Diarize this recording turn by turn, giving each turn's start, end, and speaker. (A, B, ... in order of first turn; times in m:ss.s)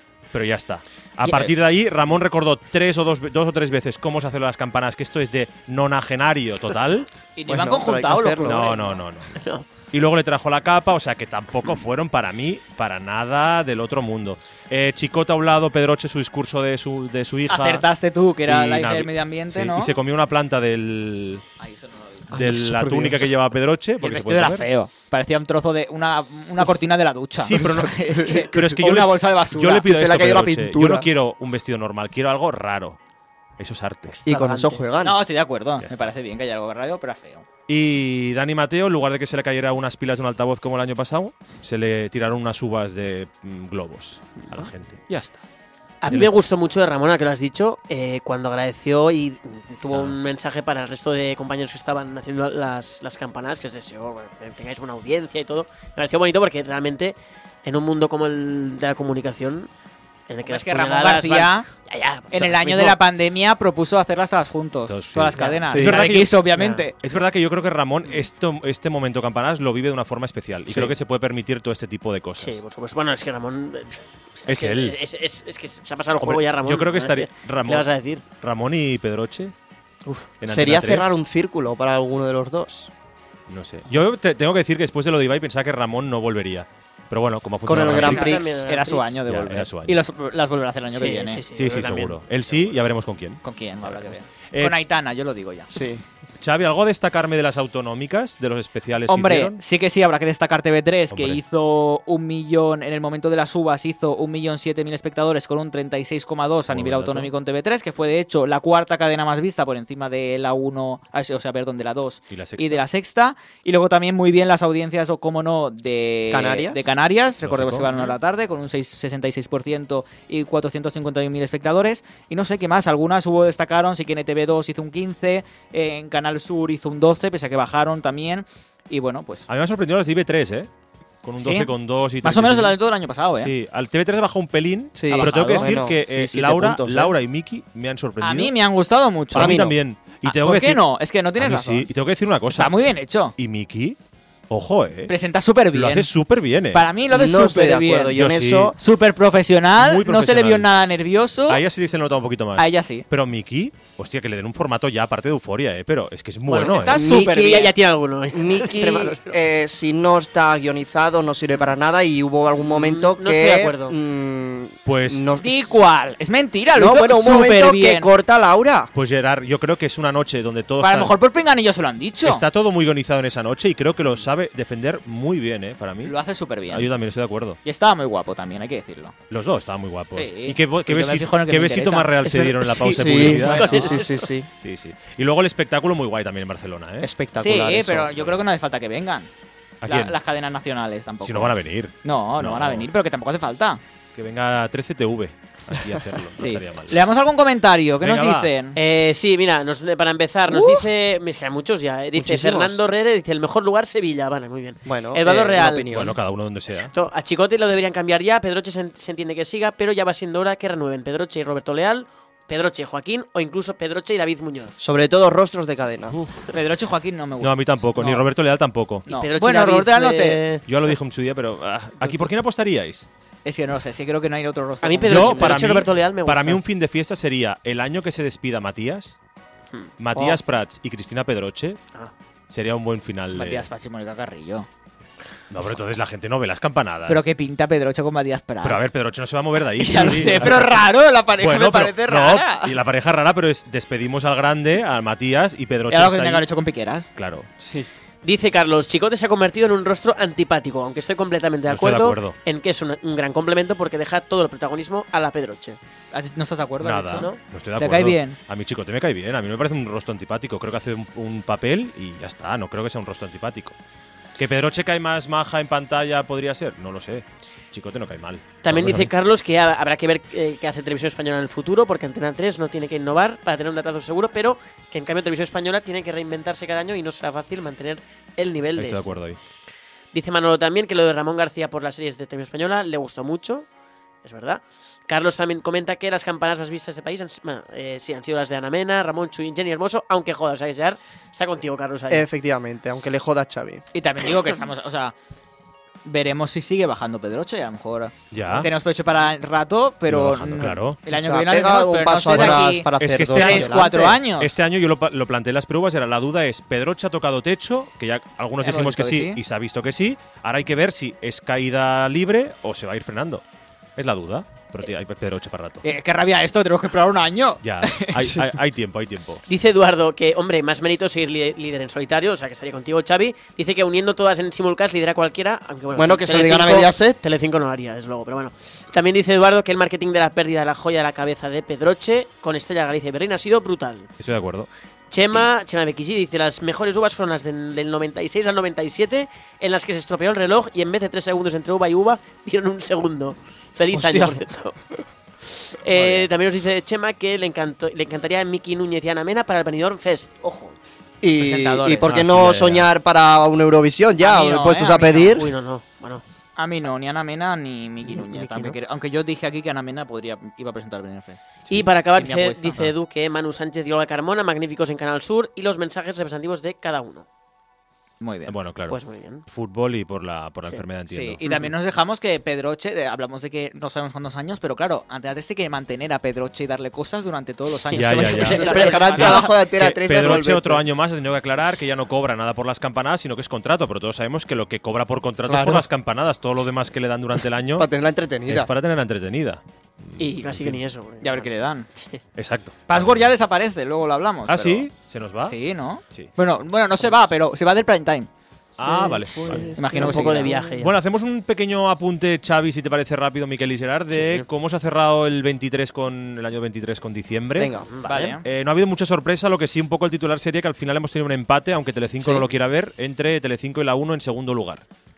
0:00.3-0:07.1 A
0:01.2-0:01.5 B
0:07.4-0:09.0 B
0:07.5-0:08.6 C
0:08.4-0:17.8 A
0:09.4-0:09.7 D
0:17.5-0:19.9 B
0:18.5-0:21.4 A
0:21.6-0:22.3 B
0:22.3-0:23.3 C
0:22.3-0:24.7 A
0:24.0-0:29.9 B
0:27.4-0:33.0 A
0:27.5-0:28.8 C
0:29.8-0:31.1 C
0:33.6-0:34.2 A
0:34.2-0:34.8 D
0:34.3-0:35.2 C
0:35.0-0:37.4 B
0:37.7-0:45.4 A
0:46.0-0:59.7 D
0:46.1-0:46.3 A
0:49.9-0:50.2 A
1:00.3-1:03.0 D
1:00.4-1:01.7 B
1:02.3-1:07.0 B
1:04.9-1:06.4 A
1:05.7-1:06.0 C
1:06.6-1:06.9 D
1:07.0-1:12.6 A
1:12.4-1:18.2 D
1:14.5-1:15.0 A
1:16.2-1:19.5 A
1:20.4-1:21.2 A
1:20.4-1:22.9 C
1:23.5-1:28.4 A
1:27.6-1:28.6 C
1:27.8-1:29.2 D
1:28.0-1:31.4 B
1:29.3-1:30.0 A
1:30.9-1:32.8 D
1:31.6-1:34.8 A
1:33.4-1:35.8 B
1:35.7-1:36.0 C
1:36.4-1:39.6 A
1:39.1-2:09.5 B
1:41.1-1:41.4 A
1:46.7-1:47.3 A
1:52.3-1:52.8 A
1:56.3-1:56.8 C
1:57.4-1:57.9 A
2:09.5-2:10.7 A
2:11.2-2:12.8 A
2:11.4-2:11.7 B
2:12.2-2:13.5 B
2:13.4-2:18.5 A
2:15.0-2:17.2 C
2:15.1-2:15.8 B
2:18.2-2:19.6 B
2:19.3-2:20.8 A
2:19.4-2:19.8 C
2:20.2-2:21.9 B
2:21.4-2:22.8 A
2:22.6-2:23.3 B
2:23.4-2:24.0 A
2:24.5-2:25.1 A
2:25.1-2:26.1 B
2:25.7-2:26.8 A
2:26.7-2:28.2 B
2:27.1-2:28.8 C
2:28.1-2:28.7 A
2:28.8-2:31.6 B
2:29.8-2:30.7 A
2:31.5-2:37.0 A
2:32.6-2:33.0 B
2:36.5-2:39.4 D
2:36.6-2:37.7 B
2:36.9-2:37.7 C
2:38.3-2:45.7 C
2:42.6-2:44.0 D
2:44.9-2:45.3 A
2:45.4-2:48.1 B
2:46.8-2:48.9 C
2:48.9-2:51.1 A
2:50.8-2:52.4 B
2:52.2-2:56.2 A
2:56.0-2:56.9 B
2:56.7-2:57.6 A
2:57.6-2:59.1 B
2:59.3-3:03.9 A
3:00.2-3:02.2 B
3:02.2-3:04.5 C
3:03.0-3:04.0 B
3:03.5-3:04.3 D
3:04.6-3:07.1 A
3:07.0-3:08.2 C
3:07.4-3:09.3 B
3:09.8-3:10.2 A
3:09.8-3:13.8 B
3:11.2-3:12.9 A
3:14.2-3:17.0 A
3:16.4-3:18.8 B
3:18.0-3:18.5 A
3:18.8-3:25.9 D
3:20.5-3:20.8 B
3:22.2-3:22.8 C
3:24.9-3:26.1 C
3:25.9-3:26.9 A
3:26.7-3:34.8 D
3:34.8-3:36.2 C
3:36.5-3:38.2 B
3:37.4-3:39.1 A
3:39.1-3:40.4 B
3:39.1-3:40.7 D
3:40.7-3:43.1 A
3:42.0-3:42.3 B
3:43.4-3:45.8 B
3:44.8-3:46.6 D
3:45.1-3:49.2 A
3:50.0-3:51.8 A
3:52.5-3:53.7 A
3:53.3-3:54.7 B
3:55.5-3:57.2 A
3:57.1-3:58.8 B
3:58.6-4:00.8 A
3:59.8-4:02.8 B
4:01.4-4:06.5 A
4:05.9-4:07.1 B
4:07.2-4:07.5 A
4:08.2-4:15.8 D
4:11.7-4:12.4 A
4:16.1-4:18.4 B
4:16.8-4:23.8 A
4:24.4-4:29.1 A
4:28.6-4:39.1 D
4:38.8-4:39.4 A
4:40.1-4:43.7 D
4:44.2-4:52.3 D
4:52.1-4:53.8 C
4:53.9-4:55.1 B
4:56.0-5:04.5 B
4:58.3-4:58.7 A
5:00.1-5:01.0 A
5:01.1-5:04.2 C
5:02.3-5:13.4 A
5:08.6-5:09.4 B
5:14.0-5:15.8 A
5:15.8-5:18.3 B
5:17.6-5:19.4 A
5:19.5-5:34.1 D
5:26.0-5:27.2 C
5:34.2-5:34.7 A
5:35.1-5:44.8 D
5:43.9-5:44.4 C
5:45.7-5:50.8 D
5:46.0-5:46.2 B
5:51.2-5:55.5 C
5:51.4-5:52.1 B
5:52.1-5:52.9 A
5:54.2-5:55.4 B
5:55.3-5:56.2 D
5:56.6-6:01.4 B
5:58.1-5:58.8 D
6:01.7-6:07.3 D
6:02.2-6:02.9 B
6:08.2-6:08.6 B
6:08.5-6:11.4 A
6:08.9-6:09.4 D
6:11.1-6:19.5 B
6:17.9-6:19.3 D
6:17.9-6:27.9 A
6:18.3-6:20.8 C
6:25.5-6:25.8 C
6:27.8-6:28.7 C
6:28.5-6:30.8 A
6:30.2-6:32.2 D
6:31.2-6:31.9 B
6:32.4-6:33.3 A
6:32.9-6:34.9 B
6:34.5-6:35.6 A
6:35.4-6:38.3 B
6:38.8-6:40.8 C
6:38.8-6:39.8 A
6:39.5-6:40.9 D
6:39.7-6:40.6 B
6:40.8-6:47.8 A
6:44.1-6:44.5 D
6:47.6-6:47.9 C
6:47.9-6:48.4 D
6:48.0-6:48.4 B
6:48.4-6:54.8 A
6:52.2-6:52.5 C